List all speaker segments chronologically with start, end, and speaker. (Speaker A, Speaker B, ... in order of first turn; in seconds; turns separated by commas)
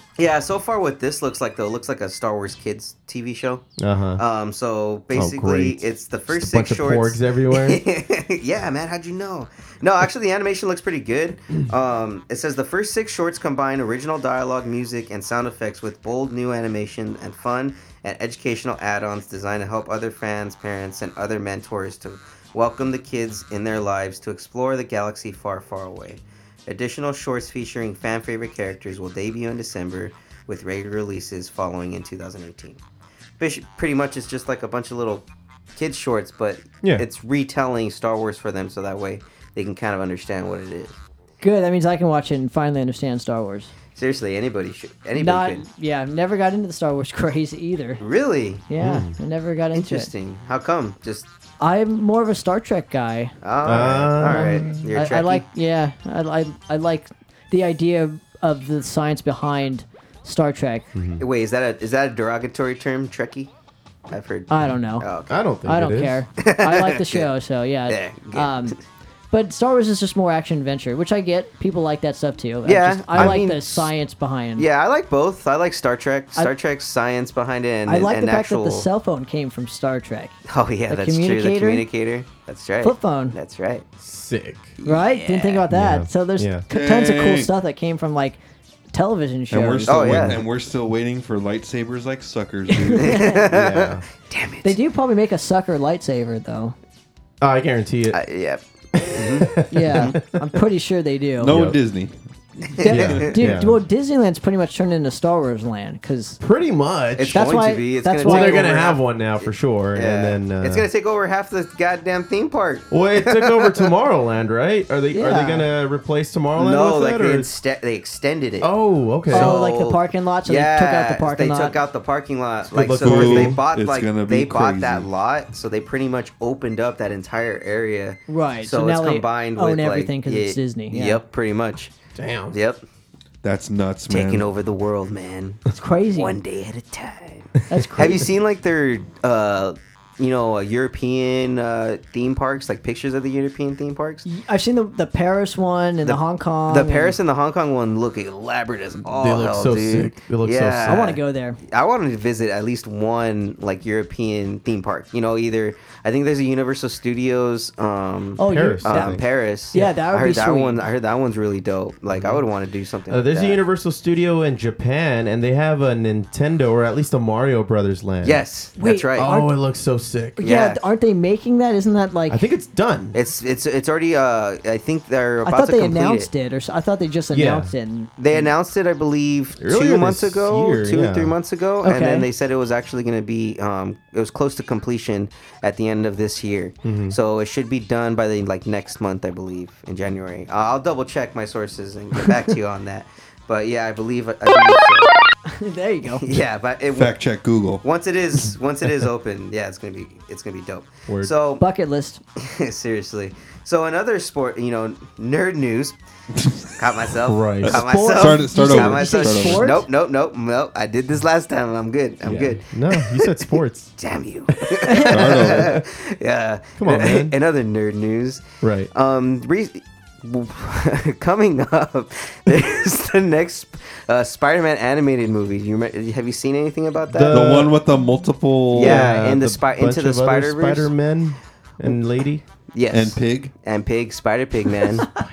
Speaker A: 0.2-3.7, Speaker B: 3.8-4.2, Speaker A: 4.2-32.8, Speaker B: 5.1-7.8, Speaker A: 33.4-41.0, Speaker C: 41.4-43.7, Speaker A: 43.9-45.6, Speaker C: 45.1-48.0, Speaker A: 48.0-48.6, Speaker C: 48.7-50.1, Speaker B: 48.8-49.1, Speaker A: 49.7-51.3, Speaker C: 51.6-53.4, Speaker A: 53.4-55.4, Speaker B: 53.6-54.6, Speaker C: 54.2-60.9, Speaker B: 60.9-61.2, Speaker A: 61.2-63.5, Speaker A: 64.1-65.3, Speaker C: 64.5-65.1, Speaker B: 65.3-66.2, Speaker C: 65.6-68.8, Speaker A: 66.4-67.3, Speaker A: 67.9-68.8, Speaker C: 69.3-74.7, Speaker A: 72.6-73.9, Speaker A: 74.6-78.9, Speaker C: 77.9-80.4, Speaker A: 80.5-83.8, Speaker C: 80.9-81.8, Speaker C: 82.8-83.4, Speaker B: 84.0-84.8, Speaker A: 84.8-85.6, Speaker C: 84.8-88.4, Speaker B: 85.7-86.6, Speaker D: 86.7-87.5, Speaker C: 88.9-90.2, Speaker D: 89.5-93.3, Speaker A: 89.9-90.4, Speaker C: 92.7-93.4, Speaker A: 93.0-94.8, Speaker B: 93.5-94.0, Speaker C: 94.6-96.8, Speaker B: 97.4-98.2, Speaker A: 98.1-100.2, Speaker B: 99.0-100.4, Speaker C: 99.7-101.5, Speaker D: 101.4-102.2, Speaker B: 101.5-101.8, Speaker A: 102.8-103.4, Speaker C: 102.8-106.4, Speaker B: 102.9-103.8, Speaker B: 106.4-107.4, Speaker A: 107.2-113.9, Speaker C: 107.3-108.7, Speaker B: 108.2-110.9, Speaker B: 112.9-117.5, Speaker C: 115.1-115.7, Speaker A: 116.6-118.7, Speaker B: 118.6-119.5, Speaker A: 119.3-131.9, Speaker C: 119.3-121.8, Speaker B: 122.7-123.6, Speaker D: 123.0-125.1, Speaker C: 128.3-131.2, Speaker B: 132.2-132.6, Speaker A: 132.5-132.8, Speaker D: 133.4-134.5, Speaker A: 134.1-144.3, Speaker C: 135.7-136.3, Speaker C: 137.7-138.3, Speaker C: 144.2-147.2, Speaker A: 146.1-163.6, Speaker B: 149.1-151.0, Speaker C: 150.8-151.6, Speaker C: 158.4-160.8, Speaker B: 158.4-159.2, Speaker B: 162.1-162.4, Speaker B: 163.1-168.4, Speaker A: 168.2-169.3, Speaker C: 168.8-169.5, Speaker B: 169.2-170.4, Speaker C: 170.4-172.4, Speaker A: 170.4-170.8, Speaker B: 172.3-173.2, Speaker A: 173.1-176.3, Speaker C: 175.4-178.5, Speaker B: 177.3-177.7, Speaker A: 178.2-195.1, Speaker B: 179.6-181.3, Speaker C: 181.8-182.3, Speaker B: 186.8-187.2, Speaker C: 195.5-196.3, Speaker A: 196.1-197.1, Speaker D: 196.9-197.8, Speaker A: 197.8-201.6, Speaker B: 201.1-201.3, Speaker C: 201.6-202.2, Speaker A: 202.4-206.0, Speaker D: 206.3-206.8, Speaker A: 206.8-213.3, Speaker B: 207.3-207.8, Speaker D: 207.6-209.8, Speaker C: 207.7-209.9, Speaker B: 212.2-213.9, Speaker A: 214.0-227.7, Speaker B: 214.7-215.8, Speaker D: 215.1-215.8, Speaker B: 216.8-217.3, Speaker B: 218.6-218.9, Speaker B: 227.1-227.7, Speaker D: 227.3-229.1, Speaker A: 228.7-230.9, Speaker B: 228.8-232.4, Speaker A: 232.7-235.1, Speaker D: 232.9-233.5